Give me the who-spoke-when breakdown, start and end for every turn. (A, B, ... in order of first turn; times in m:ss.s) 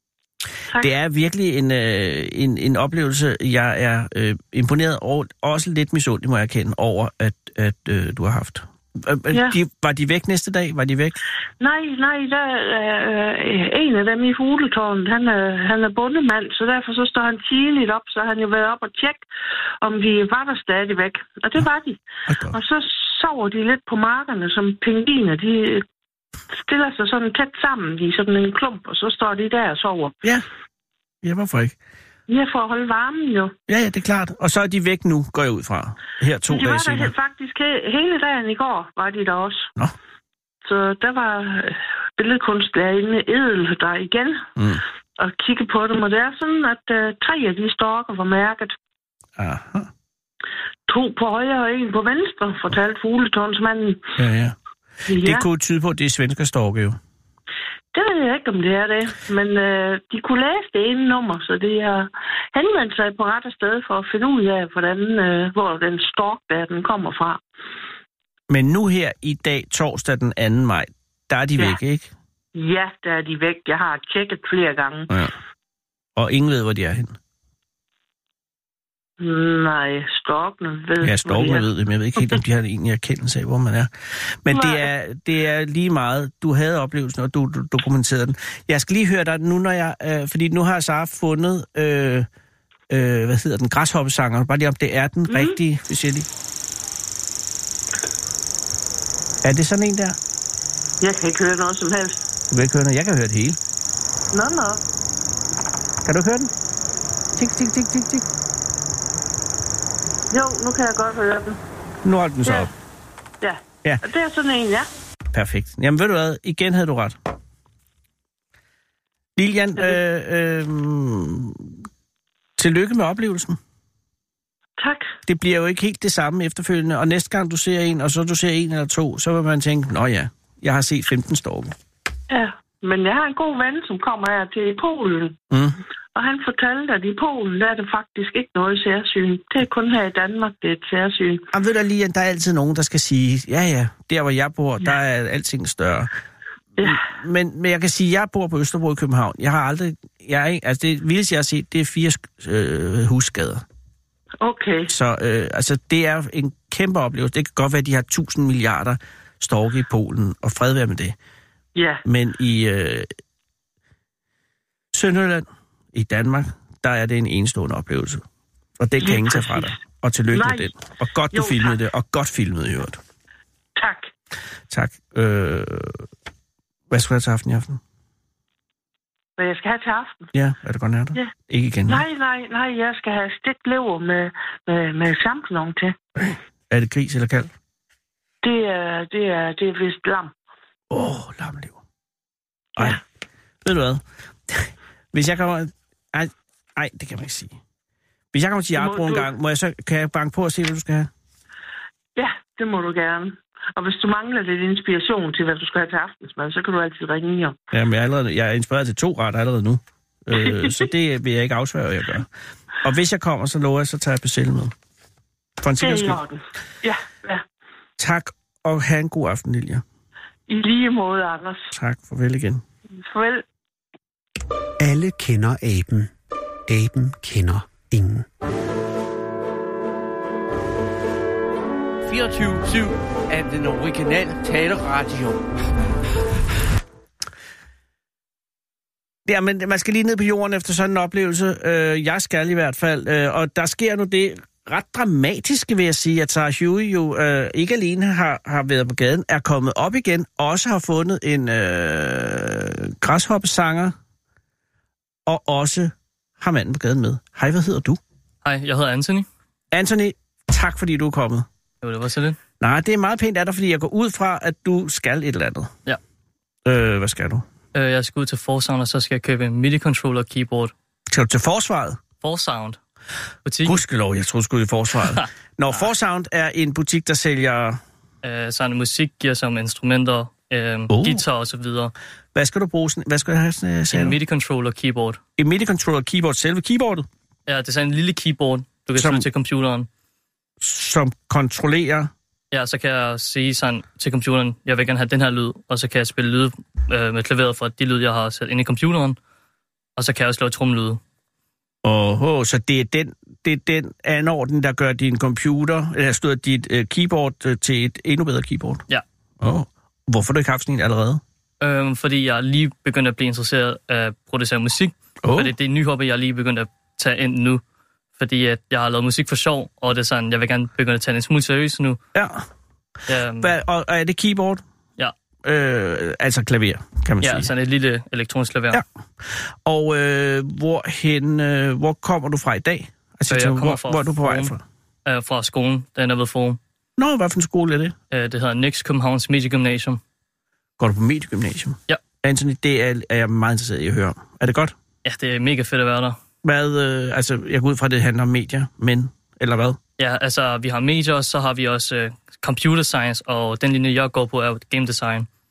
0:00.8-0:11.2 A
0:09.3-0:09.6 B
0:11.6-0:19.2 B
0:19.8-0:25.8 B
0:22.3-0:22.6 A
0:26.5-0:30.1 B
0:31.2-0:31.8 A
0:32.3-0:33.6 B
0:33.7-0:37.1 A
0:36.5-0:39.7 B
0:40.6-0:44.5 B
0:44.6-0:44.8 A
0:45.2-0:48.8 B
0:49.4-0:49.9 A
0:50.9-0:54.1 B
0:54.2-0:54.6 A
0:55.1-0:55.4 B
0:55.2-0:57.0 A
0:57.9-1:07.4 B
1:08.5-1:12.1 A
1:12.6-1:15.1 B
1:16.2-1:17.2 A
1:19.2-1:21.7 B
1:21.0-1:32.3 A
1:24.5-1:24.8 B
1:32.9-1:36.3 A
1:35.3-1:35.6 B
1:39.4-1:40.2 A
1:41.0-1:42.2 B
1:42.5-1:43.6 A
1:44.3-1:44.8 B
1:46.0-1:46.5 A
1:47.4-1:48.3 A
1:50.3-1:51.6 B
1:52.0-1:52.7 A
1:53.4-1:54.9 B
1:55.3-1:57.2 A
1:59.4-2:01.8 A
2:02.6-2:03.6 A
2:04.8-2:05.1 B
2:05.3-2:11.7 A
2:12.3-2:15.4 B
2:15.5-2:15.8 A
2:16.2-2:21.5 B
2:21.5-2:26.1 A
2:26.8-2:33.6 A
2:34.4-2:34.9 B
2:34.9-2:41.2 A
2:41.8-2:42.0 B
2:42.0-2:43.1 A
2:44.9-2:48.2 A
2:48.8-2:53.0 A
2:49.0-2:49.8 B
2:50.3-2:50.7 B
2:51.3-2:51.8 B
2:53.8-2:54.1 B
2:54.7-2:56.1 A
2:56.9-2:57.8 A
2:59.4-3:00.3 B
3:00.3-3:02.0 A
3:01.9-3:06.0 B
3:06.2-3:07.5 A
3:08.4-3:10.3 B
3:10.9-3:11.8 A
3:13.6-3:17.6 A
3:18.3-3:21.1 A
3:18.8-3:19.3 B
3:22.2-3:27.6 B
3:27.7-3:32.3 A
3:32.8-3:34.7 A
3:35.6-3:36.2 A
3:35.8-3:37.4 B
3:38.0-3:39.8 A
3:40.5-3:41.7 B
3:41.7-3:42.6 A
3:43.0-3:43.4 B
3:44.8-3:46.1 C
3:46.7-3:48.3 C
3:52.0-3:55.5 D
3:59.3-4:14.0 A
4:15.3-4:18.0 A
4:18.4-4:19.3 E
4:19.7-4:21.5 A
4:21.8-4:22.4 E
4:22.6-4:25.7 A
4:26.6-4:27.4 A
4:27.7-4:30.7 E
4:31.1-4:32.0 A
4:32.2-4:32.8 E
4:33.4-4:33.8 E
4:33.6-4:37.8 A
4:38.2-4:41.9 E
4:40.9-4:41.2 A
4:42.3-4:44.2 A
4:43.9-4:45.2 E
4:45.4-4:47.1 A
4:47.5-4:49.9 E
4:49.0-4:49.3 A
4:50.6-4:52.1 A
4:52.5-4:59.2 E
5:00.0-5:01.0 E
5:01.8-5:08.8 A
5:09.4-5:11.2 A
5:11.6-5:17.6 E
5:15.2-5:15.5 A
5:18.2-5:22.0 E
5:22.2-5:22.5 A
5:23.1-5:23.5 E
5:23.4-5:24.6 A
5:25.4-5:27.5 A
5:27.2-5:28.8 E
5:28.7-5:34.6 A
5:33.3-5:34.5 E
5:35.1-5:36.6 E
5:37.0-5:38.0 A
5:38.1-5:40.0 E
5:40.8-5:44.8 A
5:45.0-5:46.2 E
5:46.4-5:49.8 A
5:50.0-5:55.3 E